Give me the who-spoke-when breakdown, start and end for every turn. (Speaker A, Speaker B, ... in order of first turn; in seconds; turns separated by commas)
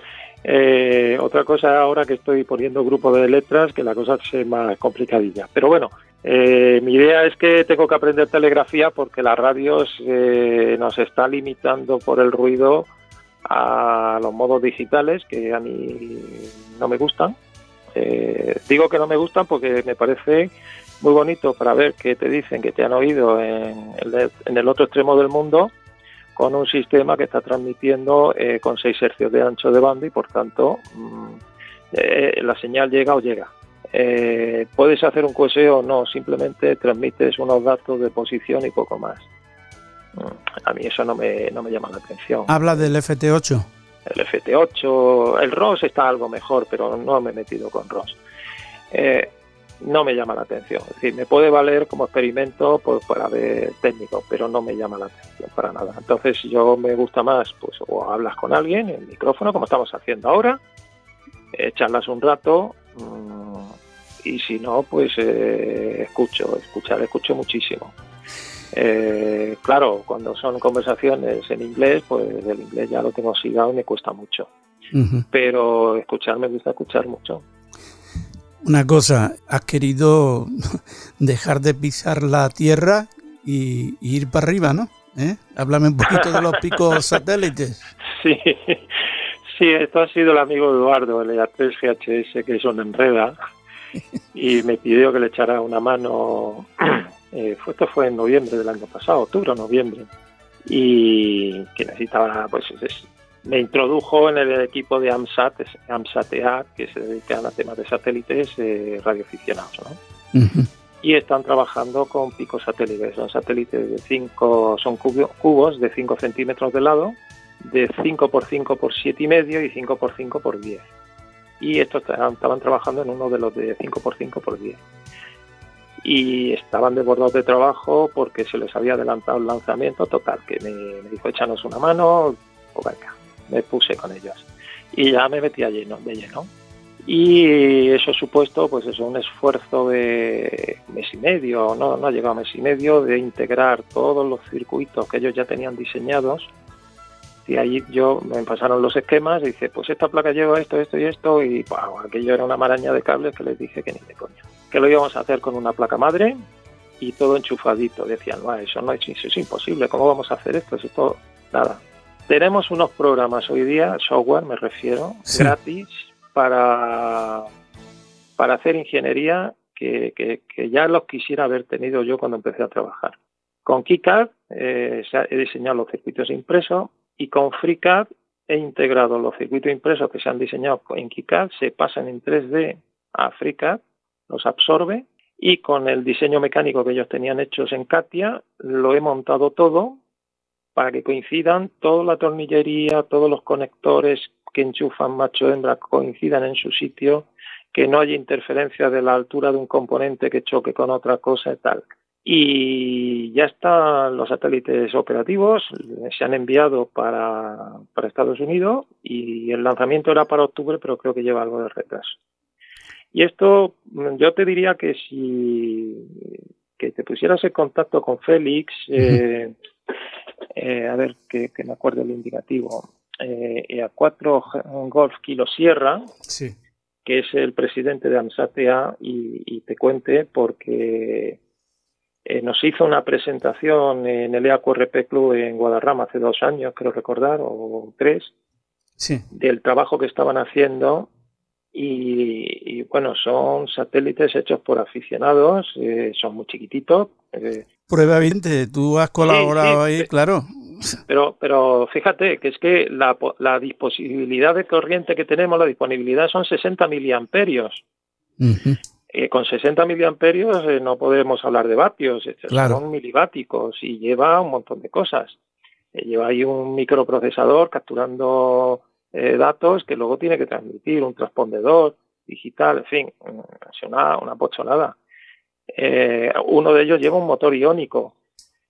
Speaker A: 0.4-12.9, Speaker A: 13.5-17.4, Speaker A: 18.0-25.7, Speaker A: 26.4-31.4, Speaker A: 31.9-39.3, Speaker A: 40.2-42.6, Speaker B: 42.5-43.7, Speaker A: 44.1-48.2, Speaker A: 48.9-60.6, Speaker A: 61.5-67.9, Speaker A: 68.7-74.5, Speaker B: 74.9-75.3, Speaker A: 75.3-77.4, Speaker B: 78.6-87.8, Speaker A: 88.1-89.0, Speaker A: 89.5-93.4, Speaker A: 94.3-100.1, Speaker A: 100.7-110.0, Speaker B: 110.3-110.7, Speaker A: 111.0-120.8, Speaker A: 121.6-124.8, Speaker A: 126.0-136.5, Speaker A: 137.1-146.5, Speaker A: 147.5-156.4, Speaker A: 157.0-167.5, Speaker B: 165.3-165.5, Speaker A: 168.4-190.0, Speaker A: 190.8-212.2, Speaker A: 213.1-219.6, Speaker A: 220.6-226.1, Speaker B: 226.3-226.6, Speaker A: 227.1-231.4, Speaker A: 232.3-238.3, Speaker A: 239.3-241.1, Speaker A: 241.7-247.7, Speaker B: 247.9-251.0, Speaker A: 249.2-250.1, Speaker A: 251.1-257.8, Speaker B: 258.4-258.8, Speaker A: 259.1-265.4, Speaker B: 262.5-262.8, Speaker A: 265.9-275.0, Speaker A: 275.7-278.1